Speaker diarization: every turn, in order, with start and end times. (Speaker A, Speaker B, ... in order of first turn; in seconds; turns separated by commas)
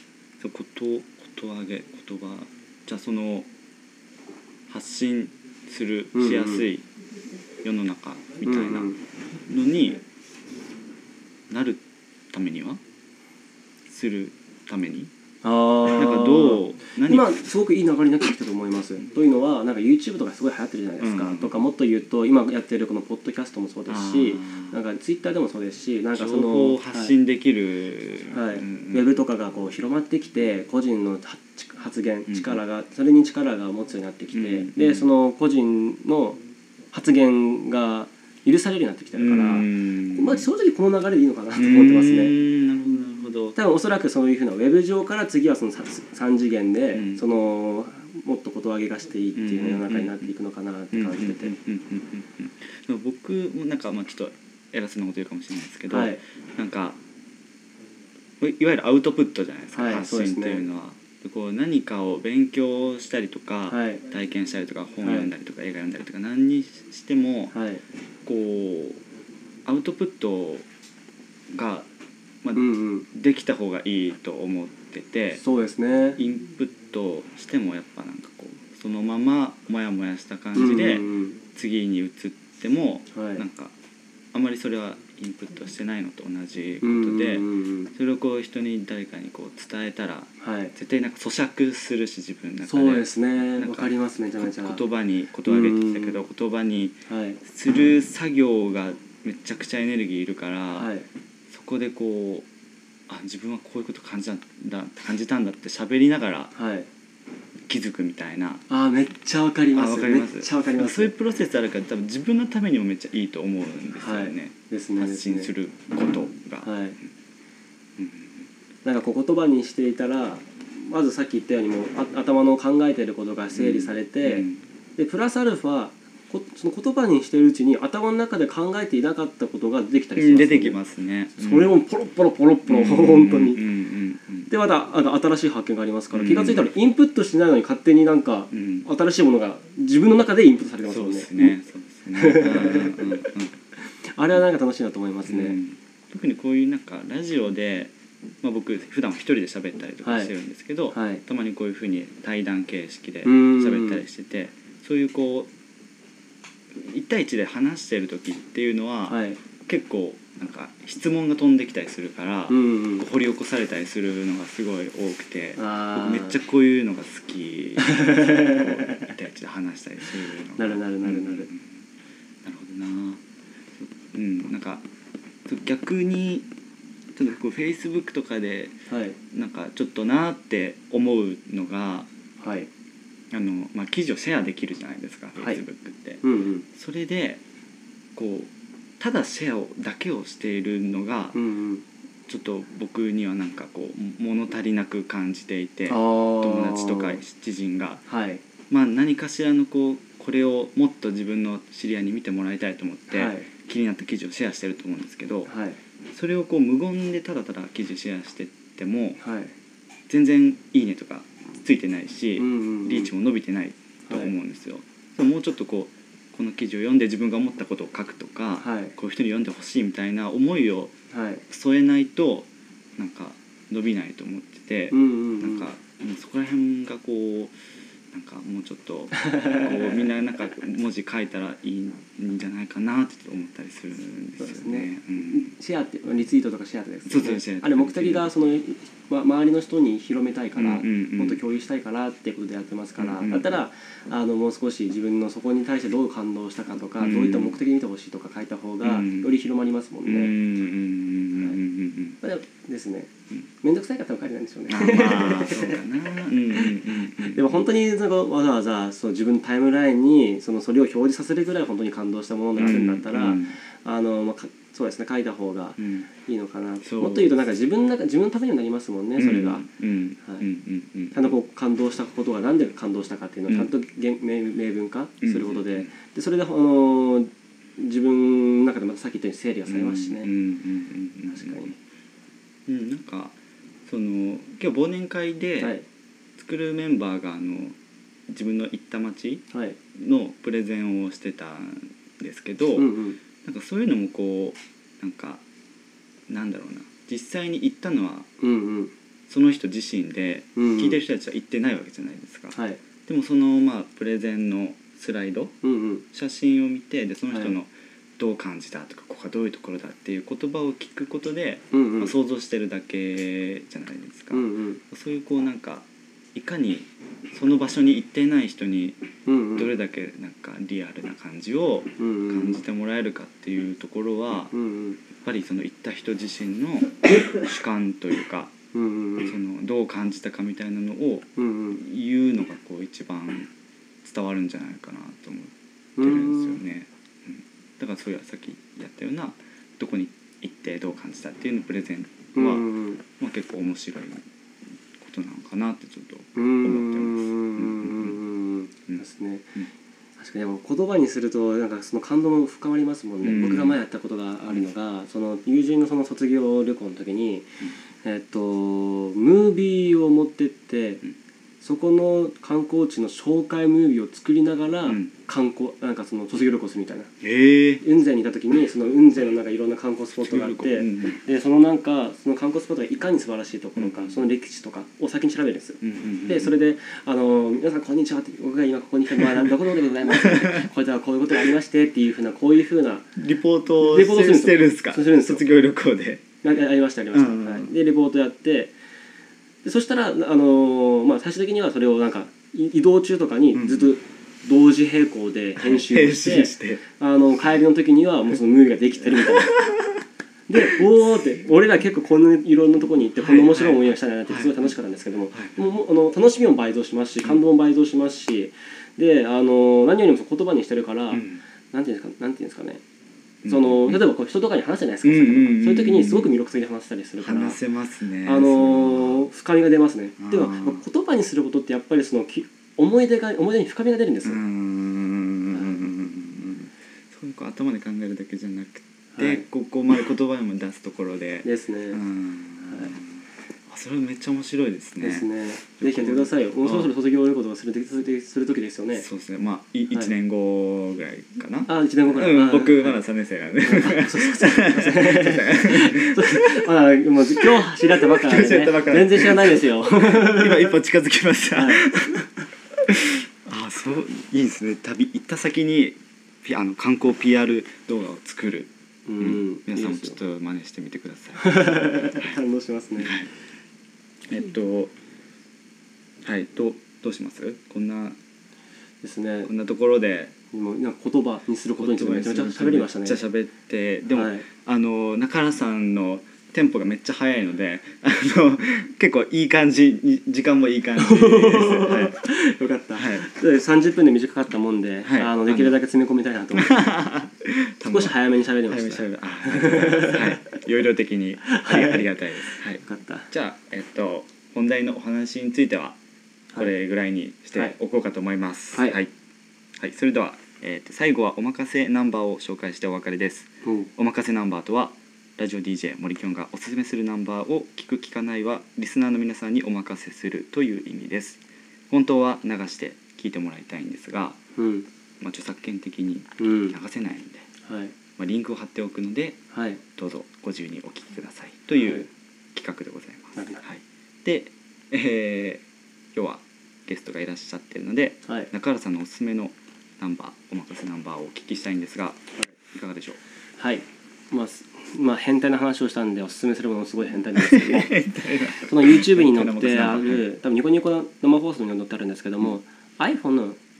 Speaker A: 0.4-3.5, Speaker A: 4.7-6.8, Speaker B: 6.1-6.6, Speaker A: 7.6-8.9, Speaker B: 8.4-9.0, Speaker A: 9.5-10.0, Speaker A: 11.5-11.8, Speaker A: 12.3-12.8, Speaker A: 13.9-15.1, Speaker B: 15.4-27.1, Speaker A: 15.8-17.3, Speaker A: 21.0-21.5, Speaker A: 23.9-24.8, Speaker A: 26.1-29.1, Speaker B: 28.3-36.4, Speaker A: 32.3-32.6, Speaker A: 34.3-35.0, Speaker B: 36.9-42.3, Speaker A: 39.1-40.4, Speaker A: 41.5-43.5, Speaker B: 43.5-51.5, Speaker A: 46.9-47.2, Speaker A: 49.3-50.3, Speaker A: 50.9-57.0, Speaker B: 55.9-56.2, Speaker A: 58.4-67.5, Speaker B: 59.7-60.6, Speaker B: 63.7-64.0, Speaker B: 65.0-65.3, Speaker B: 67.5-67.8, Speaker A: 68.2-69.0, Speaker A: 69.6-70.7, Speaker A: 71.5-71.9, Speaker A: 72.4-75.4, Speaker B: 72.5-73.1, Speaker B: 75.4-76.2, Speaker A: 76.2-83.7, Speaker B: 80.5-81.4, Speaker B: 83.1-83.4, Speaker A: 84.3-100.9, Speaker B: 86.8-87.9, Speaker B: 90.4-90.7, Speaker B: 92.6-94.8, Speaker B: 95.5-96.2, Speaker B: 97.1-97.4, Speaker B: 100.8-101.0, Speaker A: 101.5-102.5, Speaker A: 103.1-106.5, Speaker B: 106.5-106.9, Speaker A: 107.7-108.6, Speaker B: 108.7-111.1, Speaker A: 109.7-116.7, Speaker B: 114.0-115.5, Speaker B: 116.6-117.0, Speaker A: 118.0-118.4, Speaker B: 118.8-124.5, Speaker A: 123.5-124.6, Speaker B: 125.0-130.8, Speaker A: 130.2-131.7, Speaker B: 131.4-133.6, Speaker A: 132.7-134.5, Speaker B: 134.5-141.5, Speaker A: 136.1-136.7, Speaker A: 138.5-138.9, Speaker A: 140.8-143.6, Speaker B: 142.2-143.2, Speaker B: 143.8-145.6, Speaker A: 145.2-155.5, Speaker B: 150.0-150.3, Speaker B: 150.9-151.2, Speaker B: 153.2-154.0, Speaker A: 156.7-171.8, Speaker B: 159.1-159.4, Speaker B: 162.5-163.0, Speaker B: 165.6-166.3, Speaker B: 167.9-168.7, Speaker B: 170.6-171.5, Speaker A: 172.4-173.2, Speaker A: 173.8-174.8, Speaker A: 175.5-176.5, Speaker A: 177.2-178.7, Speaker B: 178.9-179.2, Speaker A: 179.3-182.1, Speaker B: 182.4-182.7, Speaker A: 183.3-187.4, Speaker B: 186.2-186.7, Speaker A: 188.2-191.4, Speaker B: 191.3-191.8, Speaker A: 192.3-198.0, Speaker B: 195.9-197.2, Speaker B: 198.1-198.4, Speaker A: 198.7-205.5, Speaker B: 203.1-203.5, Speaker B: 205.5-205.8, Speaker A: 206.1-209.2, Speaker B: 209.2-209.5, Speaker A: 210.1-220.9, Speaker B: 212.4-213.1, Speaker B: 218.6-218.9, Speaker B: 221.1-221.4, Speaker A: 221.5-227.5, Speaker B: 224.9-225.7, Speaker A: 228.1-235.5, Speaker B: 229.2-230.1, Speaker B: 234.4-250.3, Speaker A: 237.1-238.3, Speaker A: 240.6-241.4, Speaker A: 243.0-243.5, Speaker A: 246.9-247.6, Speaker A: 248.8-249.3, Speaker A: 250.0-252.2, Speaker B: 252.2-253.1, Speaker B: 253.6-255.8, Speaker A: 254.7-257.7, Speaker B: 256.6-269.6, Speaker A: 262.6-263.6, Speaker A: 265.8-266.1, Speaker A: 266.8-267.4, Speaker A: 269.2-271.3, Speaker B: 271.1-280.3, Speaker A: 275.2-275.9, Speaker A: 279.6-281.8, Speaker B: 281.3-281.7, Speaker A: 282.7-283.3, Speaker A: 283.9-285.8, Speaker B: 285.6-285.8, Speaker A: 286.4-287.8, Speaker A: 288.3-289.4, Speaker A: 289.9-295.4, Speaker B: 292.8-293.2, Speaker A: 296.3-298.3, Speaker B: 298.4-298.9, Speaker A: 299.3-305.5, Speaker B: 300.6-301.0, Speaker B: 302.5-302.8, Speaker B: 305.6-306.0, Speaker A: 306.1-319.0, Speaker B: 307.3-307.5, Speaker B: 311.7-312.1, Speaker B: 314.3-314.8, Speaker B: 319.2-319.7, Speaker A: 319.6-324.5, Speaker B: 322.0-322.6, Speaker B: 324.5-325.0, Speaker A: 325.1-328.5, Speaker B: 328.7-329.3, Speaker A: 329.2-333.5, Speaker B: 331.4-331.8, Speaker A: 334.0-344.2, Speaker B: 336.0-336.6, Speaker B: 342.3-343.0, Speaker A: 345.0-348.2, Speaker B: 346.4-349.6, Speaker B: 350.2-357.5, Speaker A: 353.2-353.8, Speaker B: 358.0-361.0, Speaker B: 361.6-367.1, Speaker A: 364.9-365.1, Speaker A: 367.2-367.8, Speaker B: 367.8-383.1, Speaker A: 370.2-371.2, Speaker A: 373.8-374.2, Speaker A: 375.8-376.5, Speaker A: 380.3-380.6, Speaker A: 383.1-386.4, Speaker B: 383.8-385.4, Speaker B: 386.4-388.7, Speaker A: 387.1-387.7, Speaker B: 389.6-399.6, Speaker A: 393.5-393.9, Speaker A: 395.6-396.9, Speaker A: 399.5-400.0, Speaker B: 400.5-412.8, Speaker A: 403.1-404.7, Speaker A: 405.3-405.6, Speaker A: 411.1-411.4, Speaker A: 413.4-414.0, Speaker B: 413.4-417.6, Speaker A: 415.0-416.3, Speaker A: 417.2-419.3, Speaker B: 418.2-424.4, Speaker A: 420.2-420.8, Speaker A: 424.2-436.9, Speaker B: 425.5-425.9, Speaker B: 429.1-429.4, Speaker B: 431.4-432.0, Speaker B: 432.7-432.9, Speaker B: 435.0-439.0, Speaker A: 438.9-446.7, Speaker B: 441.6-443.0, Speaker B: 443.6-450.7, Speaker A: 447.4-462.4, Speaker B: 451.5-451.9, Speaker B: 459.1-460.2, Speaker B: 461.4-463.2, Speaker A: 463.0-463.3, Speaker A: 464.3-464.9, Speaker A: 466.2-468.2, Speaker B: 469.0-469.5, Speaker A: 469.4-470.3, Speaker B: 470.5-473.2, Speaker A: 471.8-482.2, Speaker B: 474.1-474.4, Speaker B: 481.0-486.9, Speaker A: 482.9-483.2, Speaker A: 485.0-485.8, Speaker A: 486.5-496.0, Speaker B: 487.8-490.4, Speaker B: 491.4-493.3, Speaker A: 496.5-499.1, Speaker A: 499.8-514.4, Speaker B: 503.6-503.9, Speaker B: 514.5-514.9, Speaker A: 515.2-517.5, Speaker B: 516.4-516.8, Speaker B: 517.6-517.9, Speaker A: 518.2-525.6, Speaker B: 519.5-519.8, Speaker B: 521.8-522.0, Speaker B: 523.4-523.6, Speaker A: 526.1-533.2, Speaker B: 533.6-543.6, Speaker A: 537.4-540.2